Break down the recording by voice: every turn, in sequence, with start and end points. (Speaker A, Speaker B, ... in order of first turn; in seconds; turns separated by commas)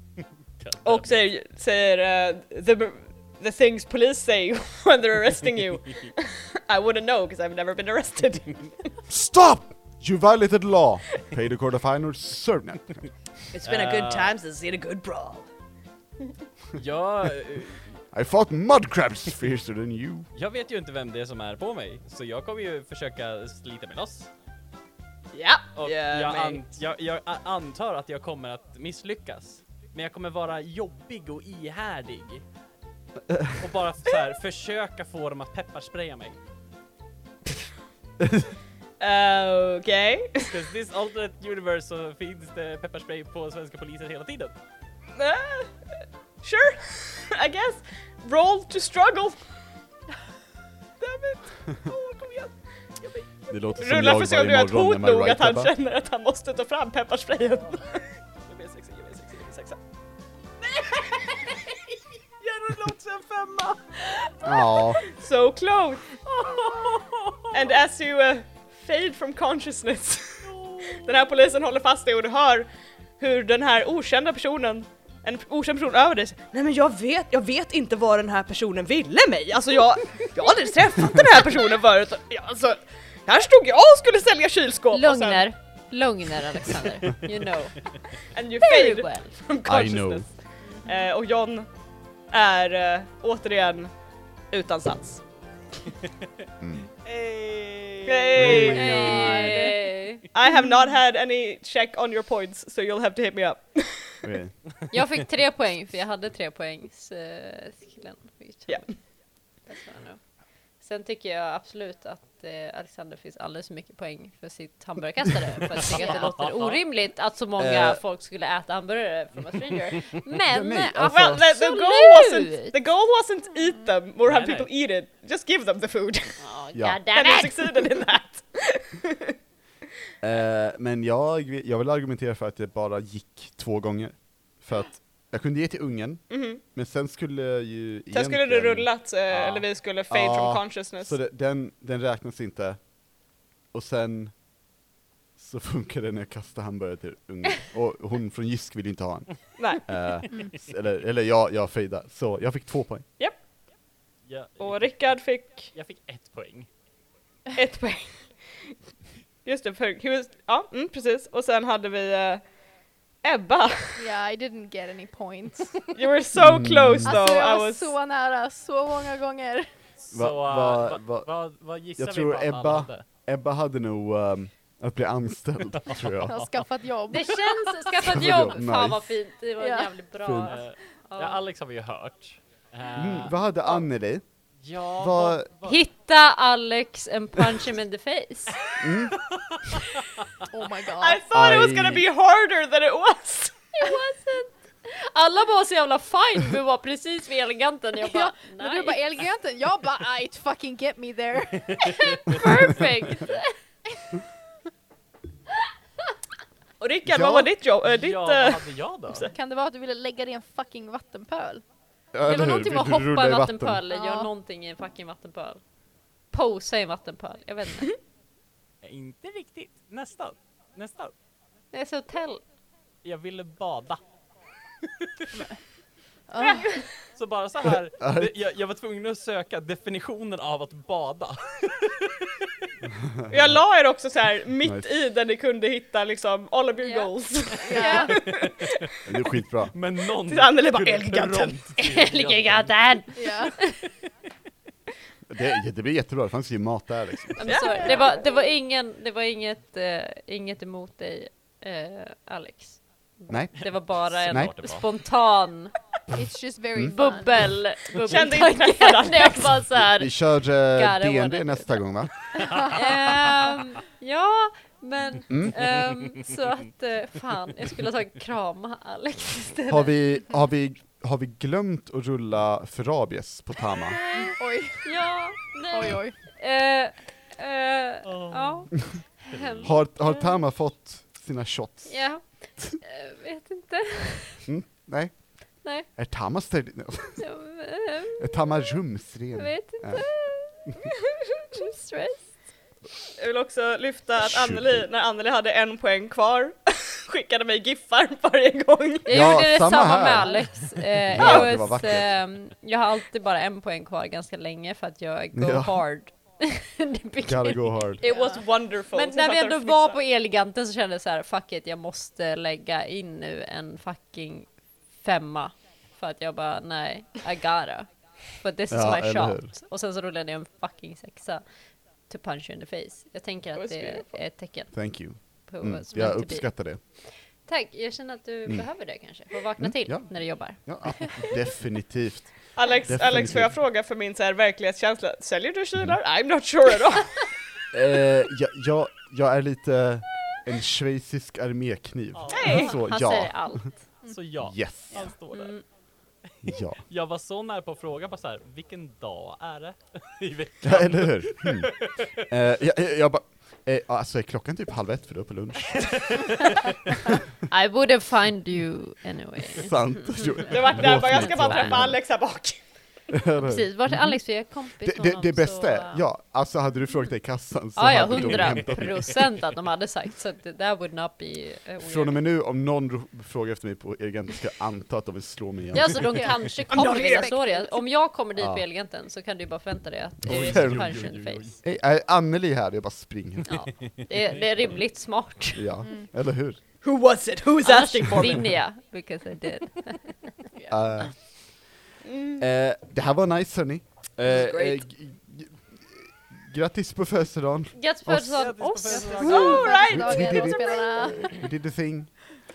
Speaker A: 0.6-1.1, Speaker B: 0.8-8.9, Speaker C: 9.1-13.1, Speaker B: 13.5-15.4, Speaker A: 13.6-14.3, Speaker A: 16.7-17.9, Speaker C: 18.1-20.3, Speaker A: 20.3-24.3, Speaker B: 25.3-26.6, Speaker A: 25.8-32.4, Speaker C: 33.3-33.6, Speaker A: 33.6-36.4, Speaker C: 38.2-38.5, Speaker B: 39.0-40.5, Speaker A: 40.4-44.5, Speaker B: 45.1-45.8, Speaker B: 46.4-49.4, Speaker B: 51.0-59.8, Speaker C: 53.5-55.7, Speaker B: 60.6-61.8, Speaker B: 62.4-67.0, Speaker C: 64.4-65.0, Speaker A: 66.7-67.4, Speaker B: 67.5-72.7, Speaker B: 73.2-85.5, Speaker D: 84.9-87.8, Speaker B: 88.3-90.3, Speaker D: 88.6-89.3, Speaker C: 89.6-90.2, Speaker B: 90.8-91.7, Speaker B: 92.3-93.9, Speaker B: 94.5-95.2, Speaker C: 96.6-96.9, Speaker A: 97.0-99.6, Speaker B: 98.0-99.2, Speaker C: 98.3-99.7, Speaker D: 98.7-100.2, Speaker B: 100.3-104.2, Speaker C: 104.2-104.5, Speaker D: 104.9-109.0, Speaker D: 109.7-110.2, Speaker D: 110.8-122.7, Speaker A: 115.8-116.8, Speaker C: 117.6-118.0, Speaker C: 120.5-121.4, Speaker B: 121.0-126.4, Speaker A: 124.2-124.7, Speaker D: 126.4-127.8, Speaker B: 127.1-129.3, Speaker C: 130.2-142.9, Speaker B: 136.3-136.6, Speaker B: 138.1-141.1, Speaker C: 143.7-144.3, Speaker C: 145.4-153.0, Speaker A: 154.3-154.9, Speaker B: 154.6-155.7, Speaker A: 155.7-156.7, Speaker B: 157.5-158.2, Speaker B: 159.4-162.4, Speaker B: 163.2-164.0, Speaker E: 164.0-166.0, Speaker B: 165.9-167.9, Speaker C: 166.4-167.2, Speaker E: 167.0-169.7, Speaker A: 170.0-173.0, Speaker C: 170.1-171.3, Speaker C: 172.0-176.3, Speaker E: 176.2-177.4, Speaker D: 177.1-181.4, Speaker C: 178.0-179.2, Speaker E: 179.6-179.9, Speaker C: 180.2-180.5, Speaker A: 180.5-183.3, Speaker C: 182.9-184.2, Speaker A: 184.6-185.8, Speaker C: 185.0-185.5, Speaker D: 185.6-188.6, Speaker C: 188.8-189.2, Speaker A: 189.2-189.8, Speaker E: 190.5-191.2, Speaker B: 191.0-193.5, Speaker C: 191.3-192.1, Speaker D: 193.7-199.0, Speaker E: 198.0-202.2, Speaker A: 201.7-202.4, Speaker D: 201.8-203.5, Speaker B: 206.8-209.3, Speaker C: 207.1-207.5, Speaker A: 207.8-209.3, Speaker E: 209.3-211.6, Speaker C: 212.1-213.8, Speaker D: 212.2-215.6, Speaker E: 213.9-214.3, Speaker D: 216.3-217.9, Speaker A: 218.8-221.1, Speaker D: 221.7-222.4, Speaker A: 223.0-224.0, Speaker A: 225.0-225.3, Speaker E: 226.3-226.7, Speaker B: 226.4-226.8, Speaker A: 227.1-232.5, Speaker C: 228.0-228.3, Speaker C: 232.8-233.5, Speaker B: 233.3-238.7, Speaker D: 236.8-238.1, Speaker E: 237.7-238.1, Speaker A: 238.1-238.9, Speaker C: 239.0-239.7, Speaker A: 239.7-242.8, Speaker B: 240.2-241.6, Speaker D: 241.8-243.8, Speaker E: 243.1-243.6, Speaker C: 245.3-247.9, Speaker D: 247.4-255.7, Speaker B: 247.4-248.1, Speaker C: 253.3-254.5, Speaker A: 254.2-254.8, Speaker E: 256.1-257.5, Speaker D: 256.8-261.8, Speaker B: 257.9-259.6, Speaker C: 260.0-262.3, Speaker D: 262.5-269.9, Speaker C: 265.3-265.6, Speaker C: 269.7-274.0, Speaker D: 273.9-280.1, Speaker E: 274.2-274.9, Speaker E: 275.7-276.1, Speaker A: 278.1-278.8, Speaker A: 279.3-279.7, Speaker C: 279.6-282.6, Speaker D: 281.9-284.5, Speaker C: 284.4-287.2, Speaker D: 287.2-288.4, Speaker C: 288.2-290.0, Speaker D: 289.4-290.9, Speaker D: 291.5-292.4, Speaker B: 293.2-299.2, Speaker C: 294.2-294.9, Speaker D: 299.1-321.4, Speaker C: 299.1-300.4, Speaker C: 301.1-302.1, Speaker B: 301.2-301.5, Speaker C: 305.3-305.8, Speaker C: 307.2-308.0, Speaker B: 308.0-310.0, Speaker E: 308.1-308.4, Speaker C: 318.7-319.5, Speaker D: 322.0-331.1, Speaker B: 323.6-324.2, Speaker C: 324.7-326.8, Speaker C: 329.6-333.5, Speaker B: 332.6-337.3, Speaker C: 337.7-343.6, Speaker A: 342.1-342.7, Speaker B: 342.3-342.8, Speaker D: 342.4-343.7, Speaker A: 344.1-345.6, Speaker C: 344.4-345.0, Speaker D: 345.0-345.6, Speaker A: 346.4-352.3, Speaker C: 346.4-346.8, Speaker C: 350.6-351.7, Speaker C: 352.2-356.4, Speaker A: 355.9-356.9, Speaker D: 357.5-361.8, Speaker C: 359.6-362.0, Speaker B: 360.4-362.6, Speaker C: 363.1-364.2, Speaker D: 363.4-366.0, Speaker C: 364.8-369.2, Speaker D: 367.8-372.2, Speaker A: 368.2-368.7, Speaker C: 371.8-376.2, Speaker D: 375.7-381.5, Speaker E: 376.0-377.7, Speaker B: 376.7-377.3, Speaker C: 378.4-378.6, Speaker C: 380.2-381.0, Speaker A: 380.2-381.6, Speaker C: 381.6-383.7, Speaker A: 383.5-384.4, Speaker D: 383.5-385.6, Speaker C: 385.5-386.6, Speaker E: 385.8-386.1, Speaker B: 386.8-388.4, Speaker D: 387.6-390.2, Speaker E: 390.5-390.8, Speaker C: 390.7-391.1, Speaker B: 392.0-392.4, Speaker C: 392.4-398.7, Speaker B: 394.2-394.9, Speaker D: 397.7-399.2, Speaker A: 398.4-399.7, Speaker E: 398.9-401.5, Speaker B: 399.2-401.3, Speaker C: 399.4-402.3